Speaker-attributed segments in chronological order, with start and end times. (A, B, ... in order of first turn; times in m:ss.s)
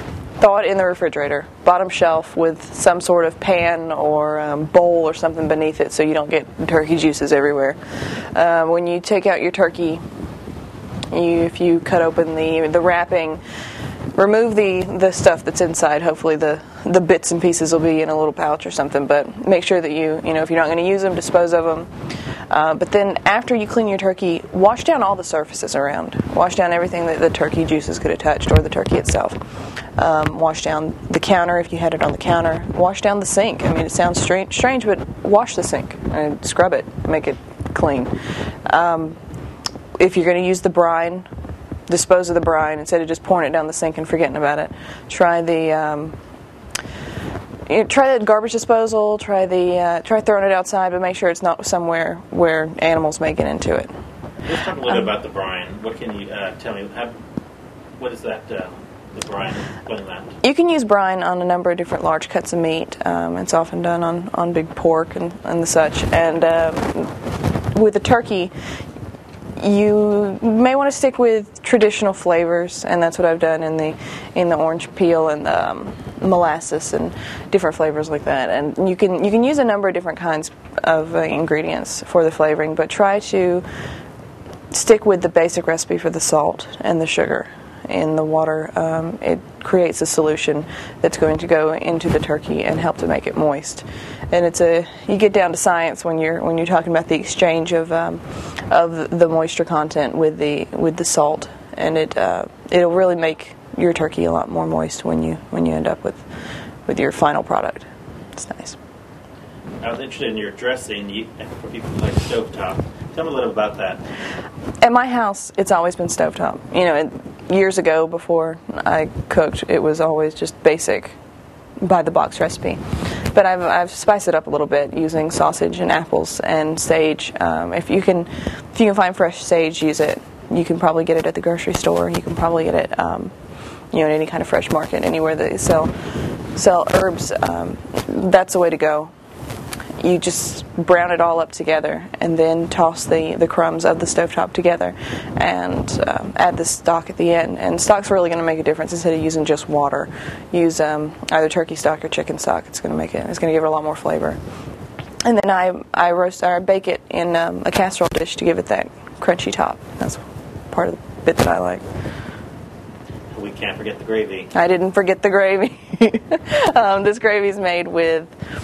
0:00.4-0:10.0 A
0:11.1-0:13.4 A
0:14.1-0:21.9 A
0:22.5-0:29.4 A
0:30.0-0:38.1 A
0:38.6-0:39.2 A
0:40.0-0:41.3 A
0:41.9-0:46.2 A
0:47.7-0:53.9 A
0:54.4-0:57.2 B
0:58.0-1:00.3 B
1:00.4-1:07.1 A
1:07.7-1:08.5 A
1:09.6-1:23.6 A
1:24.7-1:46.2 A
1:46.8-1:48.8 A
1:49.8-1:54.0 B
1:54.8-2:01.1 A
2:01.8-2:02.8 A
2:03.3-2:13.3 A
2:13.9-2:15.9 A
2:16.5-2:19.1 A
2:20.0-2:34.4 A
2:35.2-2:41.8 A
2:43.3-2:44.5 B
2:44.5-2:48.3 A